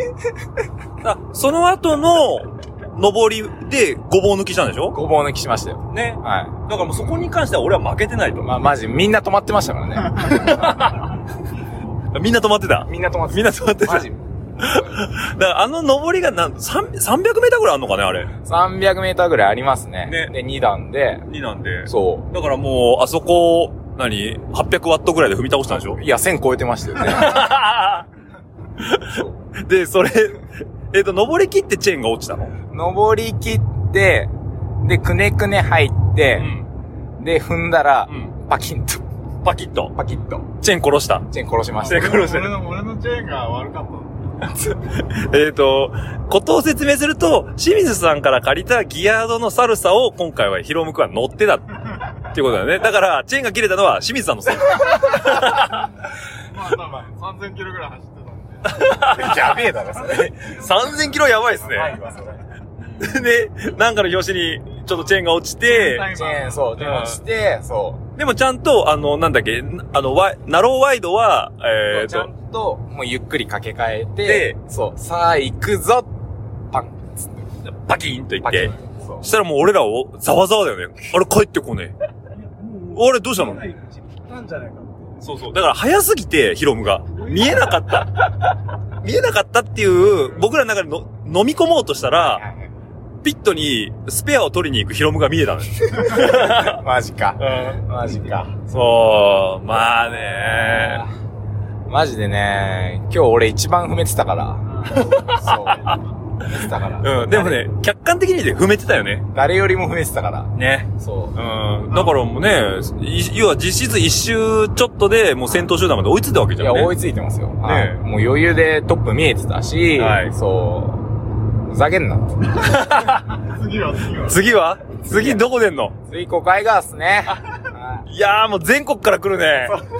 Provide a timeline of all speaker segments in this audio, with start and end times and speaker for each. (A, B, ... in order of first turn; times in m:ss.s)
0:01.0-0:05.0 A
0:04.9-0:06.6 B
0:05.9-0:08.5 A
0:08.4-0:10.3 B
0:10.2-0:10.9 A
0:12.1-0:14.1 A
0:12.9-0:14.9 B
0:14.6-0:18.3 A
0:18.4-0:21.2 B
0:20.0-0:20.3 A
0:21.3-0:26.0 A
0:21.8-0:22.3 B
0:25.7-0:27.4 B
0:27.0-0:28.0 A
0:28.9-0:30.4 A
0:30.9-0:32.5 A
0:32.7-0:34.3 B
0:34.8-0:36.5 B
0:36.3-0:36.6 A
0:37.2-0:39.0 B
0:38.1-0:38.3 A
0:39.4-0:39.9 A
0:39.9-0:40.5 B
0:40.6-0:41.3 A
0:41.3-0:42.2 B
0:41.8-0:44.2 C
0:41.8-0:42.5 A
0:44.6-0:51.6 A
0:52.3-0:55.9 A
0:56.5-0:58.7 C
0:58.7-0:59.6 A
0:59.0-1:00.3 B
1:00.1-1:02.0 A
1:01.7-1:02.2 C
1:03.0-1:06.1 A
1:05.7-1:06.9 C
1:06.1-1:08.0 B
1:06.8-1:07.2 A
1:08.2-1:12.3 A
1:11.9-1:16.1 B
1:14.2-1:14.6 A
1:16.7-1:17.4 B
1:17.6-1:21.9 A
1:18.4-1:19.2 B
1:22.8-1:23.7 A
1:24.4-1:25.0 C
1:25.2-1:28.2 A
1:29.0-1:32.4 A
1:32.2-1:32.6 B
1:33.2-1:36.8 A
1:36.1-1:38.6 B
1:37.4-1:37.8 A
1:38.6-1:41.0 A
1:40.3-1:41.0 B
1:41.9-1:44.6 B
1:44.9-1:46.0 A
1:45.3-1:45.8 B
1:46.4-1:47.6 B
1:47.0-1:49.3 A
1:49.3-1:51.3 B
1:50.5-1:57.0 A
1:56.6-2:01.1 B
1:57.6-1:58.0 A
1:59.9-2:00.3 A
2:01.7-2:02.3 B
2:02.6-2:03.2 A
2:03.4-2:04.4 C
2:04.2-2:06.0 A
2:05.0-2:05.5 B
2:06.1-2:08.0 B
2:08.1-2:09.8 A